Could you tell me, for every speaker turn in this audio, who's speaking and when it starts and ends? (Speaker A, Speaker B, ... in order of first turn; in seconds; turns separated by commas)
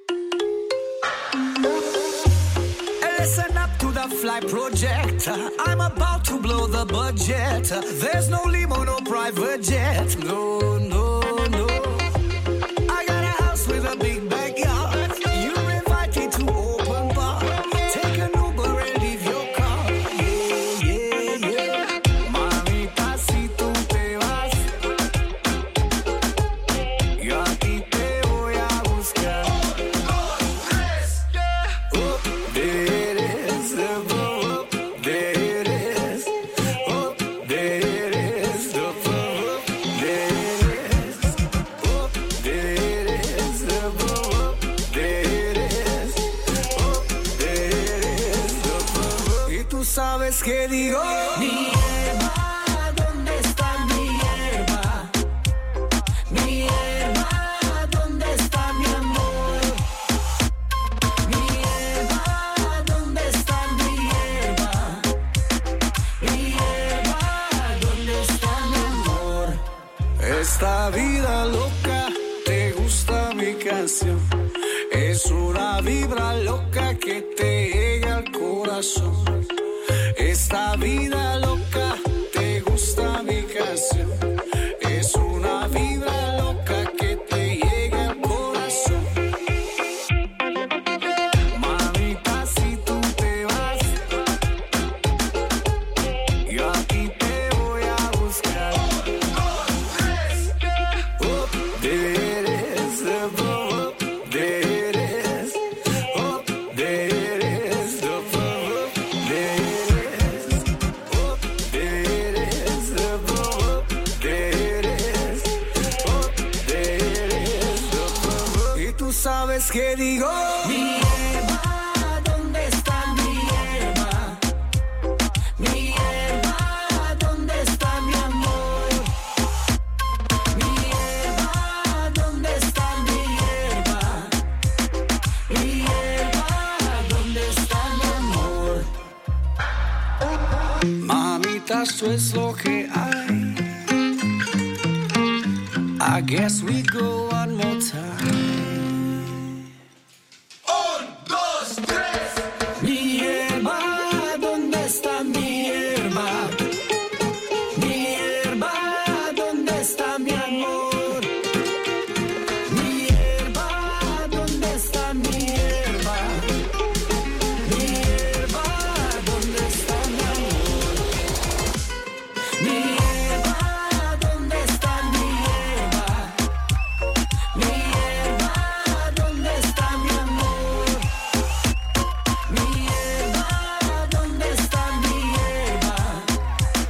Speaker A: 3.0-12.1, Speaker A: 12.9-24.7, Speaker A: 27.2-55.1, Speaker A: 56.3-59.8, Speaker A: 61.2-65.1, Speaker A: 66.2-69.6, Speaker A: 70.2-74.3, Speaker A: 74.9-79.4, Speaker A: 80.2-84.3, Speaker A: 84.8-89.1, Speaker A: 91.5-94.0, Speaker A: 96.5-124.4, Speaker A: 125.6-129.1, Speaker A: 130.5-134.4, Speaker A: 135.5-138.9, Speaker A: 141.0-143.7, Speaker A: 146.0-148.7, Speaker A: 150.7-156.6, Speaker A: 157.7-161.4, Speaker A: 162.7-166.5, Speaker A: 167.6-171.1, Speaker A: 172.6-176.4, Speaker A: 177.5-181.0, Speaker A: 182.5-186.3